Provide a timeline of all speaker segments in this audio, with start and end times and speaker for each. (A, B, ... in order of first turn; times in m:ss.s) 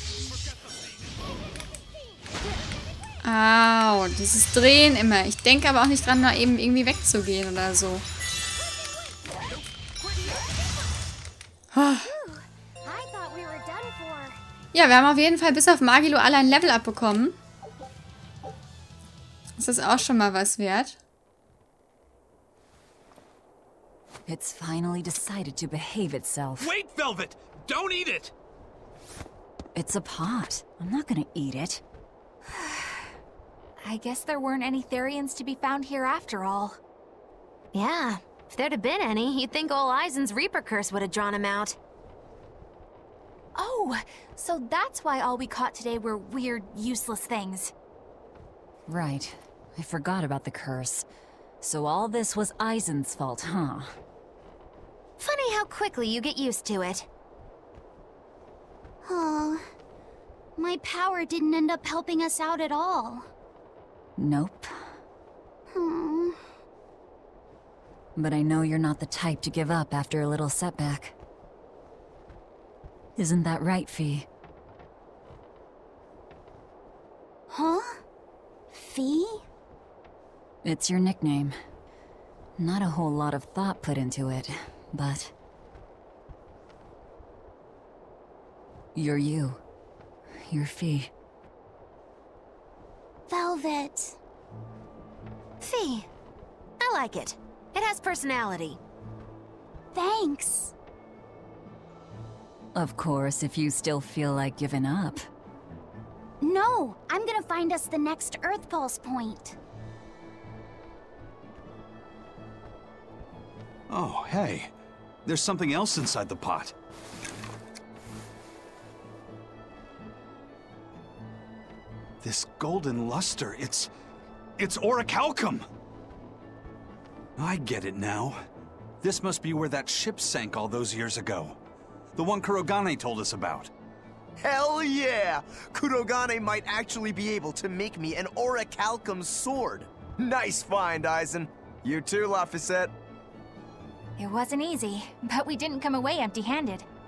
0:03.2-0:08.0 A
0:11.7-0:12.1 A
0:12.0-0:14.4 B
0:14.7-0:17.4 A
0:19.6-0:21.0 A
0:24.3-0:26.7 C
0:26.6-0:28.3 D
0:29.7-0:31.8 C
0:33.8-0:36.8 E
0:37.7-0:41.8 F
0:43.6-0:47.7 E
0:48.9-0:51.0 C
0:51.6-0:53.9 C
0:55.2-0:57.0 F
0:59.0-0:59.6 B
1:00.6-1:03.2 B
1:04.2-1:04.7 C
1:05.7-1:06.4 B
1:08.2-1:11.1 C
1:13.2-1:14.3 C
1:17.5-1:18.0 B
1:18.7-1:19.3 B
1:20.6-1:21.5 C
1:22.6-1:25.3 C
1:28.9-1:29.6 C
1:30.5-1:31.1 C
1:33.3-1:34.2 B
1:35.6-1:36.0 F
1:36.8-1:38.8 F
1:39.9-1:40.7 B
1:42.7-1:45.2 C
1:46.4-1:49.6 B
1:53.9-1:54.7 D
1:55.2-1:56.7 D
2:02.2-2:03.9 D
2:04.6-2:05.6 D
2:07.4-2:08.4 D
2:09.0-2:11.6 D
2:12.2-2:13.7 D
2:14.4-2:22.9 G
2:24.2-2:26.8 E